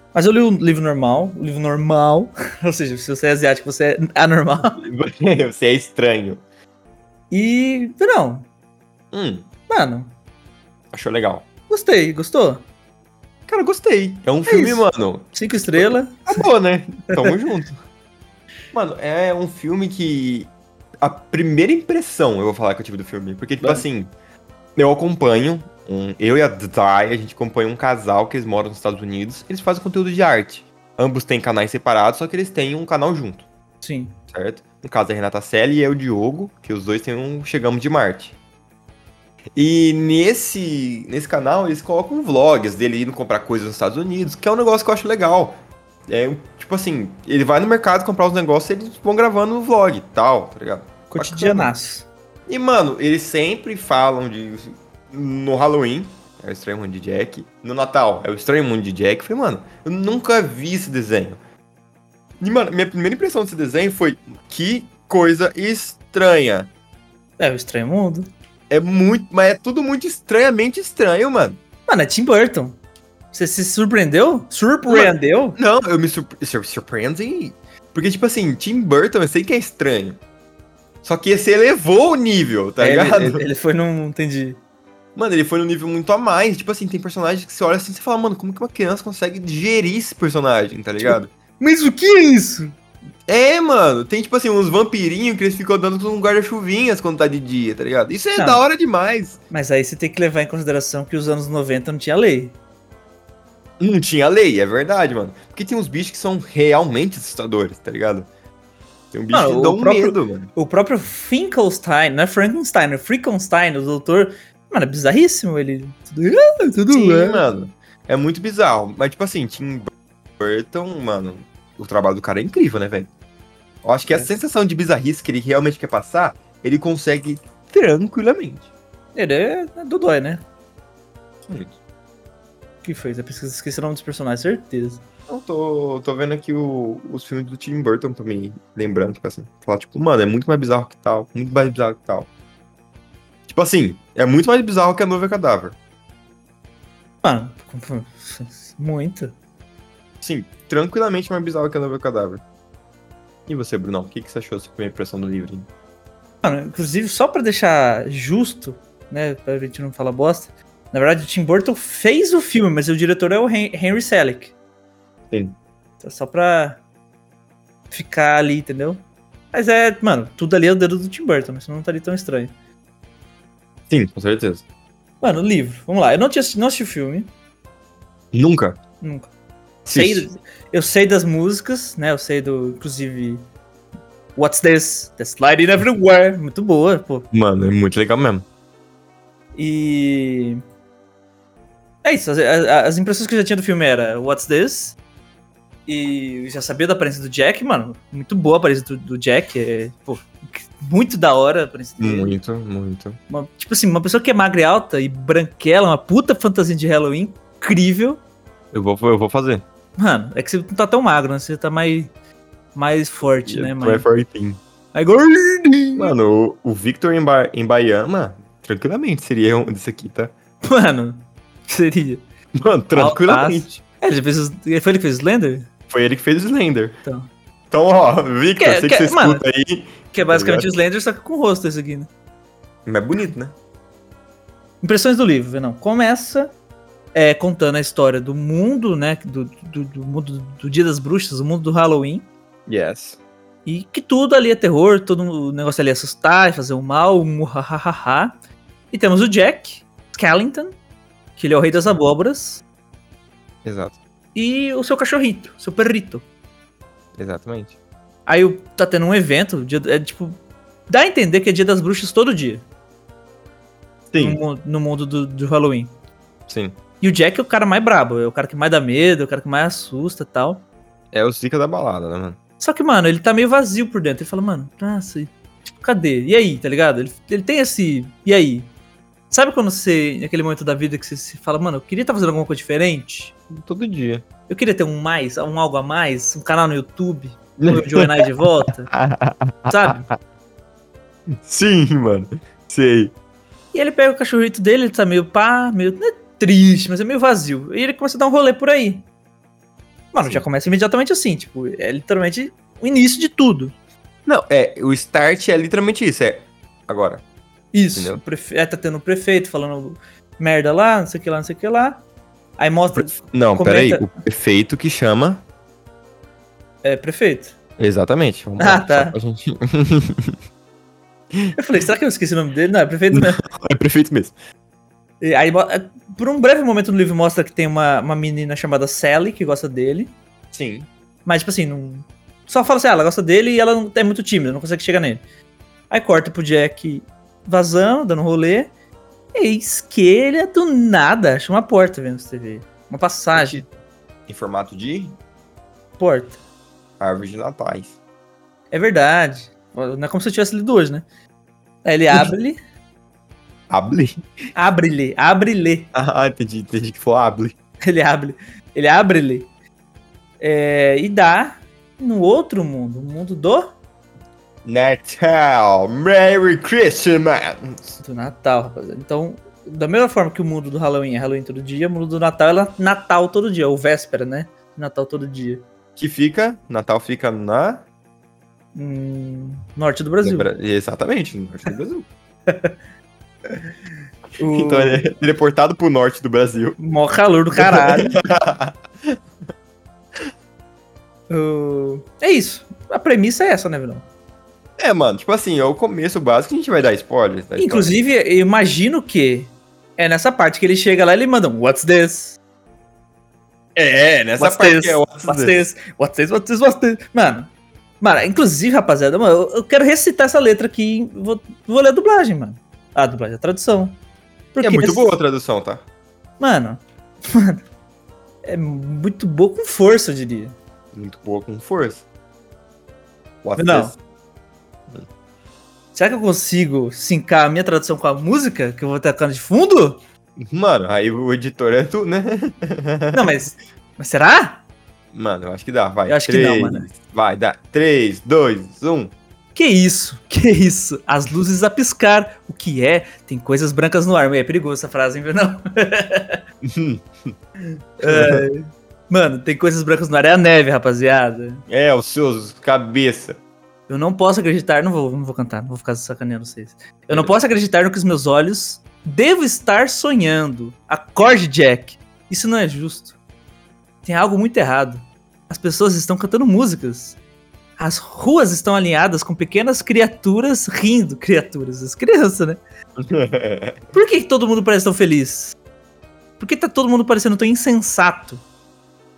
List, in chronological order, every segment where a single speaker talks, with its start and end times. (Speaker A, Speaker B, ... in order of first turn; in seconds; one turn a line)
Speaker A: 0.1-4.8
Speaker B: 4.8-6.4
Speaker A: 7.3-8.5
Speaker B: 9.1-9.5
Speaker A: 9.7-10.1
Speaker B: 10.9-11.5
Speaker A: 11.7-12.7
Speaker B: 13.5-17.8
Speaker A: 14.5-16.5
Speaker B: 18.7-20.5
Speaker B: 21.0-24.1
Speaker B: 24.8-33.5
Speaker A: 33.8-34.2
Speaker B: 34.3-38.4
Speaker B: 39.6-51.7
Speaker A: 51.1-52.1
Speaker B: 52.5-61.4
Speaker B: 62.4-66.7
Speaker A: 67.4-68.3
Speaker B: 68.7-71.6
Speaker A: 71.9-72.8
Speaker A: 73.3-75.6
Speaker B: 74.9-80.2
Speaker B: 81.0-83.4
Speaker A: 82.8-84.6
Speaker B: 85.2-91.3
Speaker A: 91.0-92.7
Speaker B: 93.3-99.4
Speaker A: 98.4-98.6
Speaker A: 99.5-102.6
Speaker B: 103.8-108.3
Speaker B: 109.1-110.5
Speaker A: 109.3-117.4
Speaker B: 116.9-123.1
Speaker B: 123.8-128.7
Speaker A: 129.2-130.4
Speaker B: 131.5-131.7
Speaker A: 132.8-135.0
Speaker B: 135.3-142.3
Speaker B: 143.5-145.8
Speaker A: 147.2-149.3
Speaker B: 150.2-152.4
Speaker B: 153.5-155.7
Speaker A: 156.4-164.5
Speaker B: 165.3-165.6
Speaker A: 166.0-166.8
Speaker A: 167.9-172.5
Speaker B: 173.9-174.6
Speaker A: 175.2-177.3
Speaker B: 178.3-178.8
Speaker A: 179.0-179.3
Speaker B: 179.9-180.3
Speaker A: 179.9-183.4
Speaker A: 184.4-187.3
Speaker B: 187.3-188.4
Speaker A: 189.6-190.6
Speaker A: 192.0-195.0
Speaker A: 195.9-202.4
Speaker B: 202.0-203.2
Speaker A: 203.3-208.2
Speaker B: 208.7-209.6
Speaker A: 210.0-212.1
Speaker A: 212.8-214.1
Speaker B: 213.5-214.6
Speaker A: 214.9-216.2
Speaker B: 216.0-220.3
Speaker A: 220.6-222.2
Speaker B: 222.6-223.7
Speaker A: 222.9-225.7
Speaker B: 225.9-227.0
Speaker B: 227.7-230.7
Speaker A: 228.6-229.4
Speaker A: 230.1-232.1
Speaker B: 232.9-233.6
Speaker A: 234.8-236.5
Speaker A: 237.1-242.3
Speaker B: 242.7-243.2
Speaker A: 243.7-248.3
Speaker A: 248.9-250.7
Speaker A: 251.4-252.6
Speaker B: 253.7-254.0
Speaker A: 254.3-256.2
Speaker B: 257.2-257.8
Speaker A: 258.3-260.4
Speaker A: 260.9-262.6
Speaker B: 264.1-264.4
Speaker A: 264.2-265.9
Speaker B: 266.5-266.8
Speaker A: 267.0-270.6
Speaker B: 271.1-272.4
Speaker A: 272.6-278.7
Speaker A: 279.3-283.3
Speaker B: 283.5-284.2
Speaker A: 284.5-288.9
Speaker B: 287.6-288.3
Speaker B: 288.9-290.2
Speaker A: 289.7-290.1
Speaker B: 291.3-293.1
Speaker A: 293.7-299.1
Speaker A: 300.1-303.7
Speaker B: 304.3-307.2
Speaker A: 307.7-312.0
Speaker B: 308.0-308.2
Speaker A: 312.6-314.1
Speaker B: 312.9-315.4
Speaker A: 316.8-317.6
Speaker B: 317.8-320.4
Speaker A: 318.6-319.2
Speaker A: 321.6-323.4
Speaker B: 323.1-324.3
Speaker A: 325.2-330.1
Speaker B: 330.5-330.9
Speaker A: 331.3-335.2
Speaker A: 335.9-338.7
Speaker A: 339.4-343.6
Speaker B: 343.3-343.7
Speaker B: 344.3-345.2
Speaker A: 346.0-346.4
Speaker B: 347.0-348.0
Speaker A: 348.7-351.1
Speaker A: 351.9-352.6
Speaker B: 353.7-354.2
Speaker A: 354.6-355.9
Speaker B: 355.9-357.6
Speaker A: 357.8-359.5
Speaker A: 360.4-363.7
Speaker B: 364.6-368.0
Speaker A: 368.0-375.6
Speaker B: 376.0-377.9
Speaker A: 378.8-380.5
Speaker B: 380.2-382.1
Speaker A: 382.5-382.8
Speaker A: 384.4-385.1
Speaker B: 384.5-386.8
Speaker A: 386.8-388.2
Speaker B: 387.6-389.2
Speaker A: 391.3-394.1
Speaker B: 394.8-397.9
Speaker A: 397.6-402.4
Speaker B: 403.8-405.6
Speaker A: 404.4-414.0
Speaker A: 414.5-415.1
Speaker B: 414.6-415.9
Speaker A: 416.4-417.6
Speaker A: 418.4-420.6
Speaker B: 420.9-422.1
Speaker B: 423.4-424.0
Speaker A: 423.6-423.9
Speaker A: 425.9-430.0
Speaker B: 430.4-433.3
Speaker A: 433.1-434.6
Speaker B: 435.1-439.1
Speaker A: 436.1-436.9
Speaker A: 439.6-446.4
Speaker B: 446.6-447.3
Speaker A: 448.0-451.6
Speaker B: 448.0-448.4
Speaker B: 451.7-453.4
Speaker A: 453.9-463.2
Speaker A: 464.0-467.2
Speaker A: 467.8-472.6
Speaker B: 473.0-473.9
Speaker A: 473.9-475.6
Speaker A: 476.4-478.4